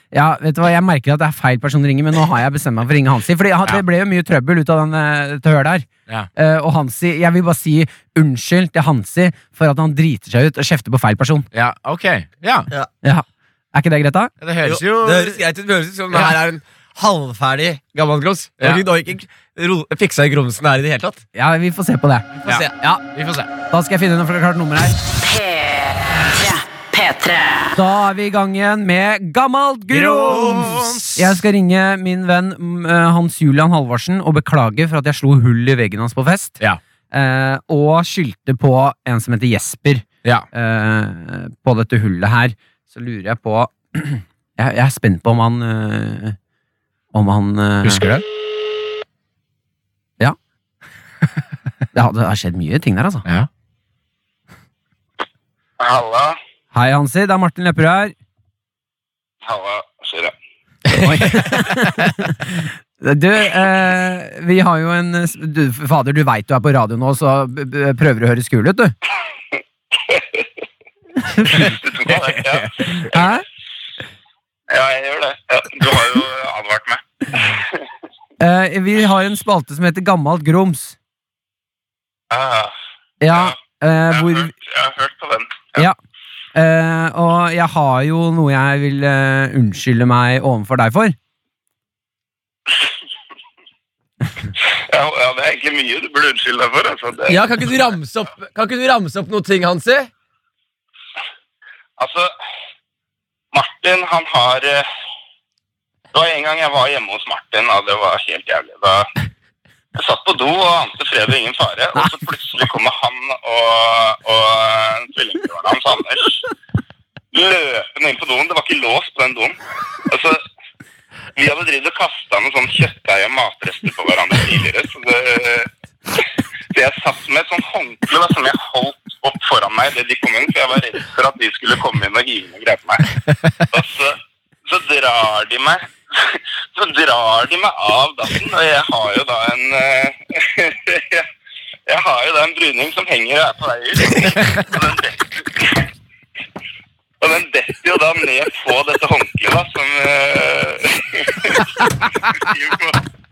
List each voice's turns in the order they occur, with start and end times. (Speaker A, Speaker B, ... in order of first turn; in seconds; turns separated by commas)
Speaker A: 0.1-11.4, Speaker B: 11.5-12.7, Speaker A: 13.0-14.3, Speaker B: 14.4-15.4, Speaker C: 14.6-21.2, Speaker A: 21.3-23.0, Speaker B: 22.4-23.5, Speaker A: 23.7-24.9, Speaker D: 25.2-27.8, Speaker A: 27.7-36.6, Speaker B: 29.9-31.4, Speaker A: 37.1-46.4, Speaker A: 47.1-48.0, Speaker B: 47.8-48.2, Speaker A: 51.9-53.2, Speaker E: 55.8-56.4, Speaker A: 56.7-58.1, Speaker E: 59.4-60.3, Speaker A: 60.9-69.0, Speaker A: 71.2-71.8, Speaker E: 71.5-73.1, Speaker B: 72.1-72.5, Speaker A: 72.9-73.4, Speaker E: 74.7-77.6, Speaker A: 78.4-81.0, Speaker E: 82.3-82.7, Speaker A: 83.2-84.5, Speaker E: 83.3-83.6, Speaker E: 84.1-85.9, Speaker A: 86.5-91.2, Speaker E: 94.9-97.4, Speaker C: 97.3-100.1, Speaker E: 102.0-102.3, Speaker E: 103.5-104.9, Speaker E: 106.1-109.1, Speaker E: 110.0-116.4, Speaker E: 117.3-119.5, Speaker E: 120.1-120.4, Speaker E: 121.4-125.7, Speaker E: 126.7-133.1, Speaker E: 133.7-141.3, Speaker E: 141.9-145.8, Speaker E: 147.2-153.0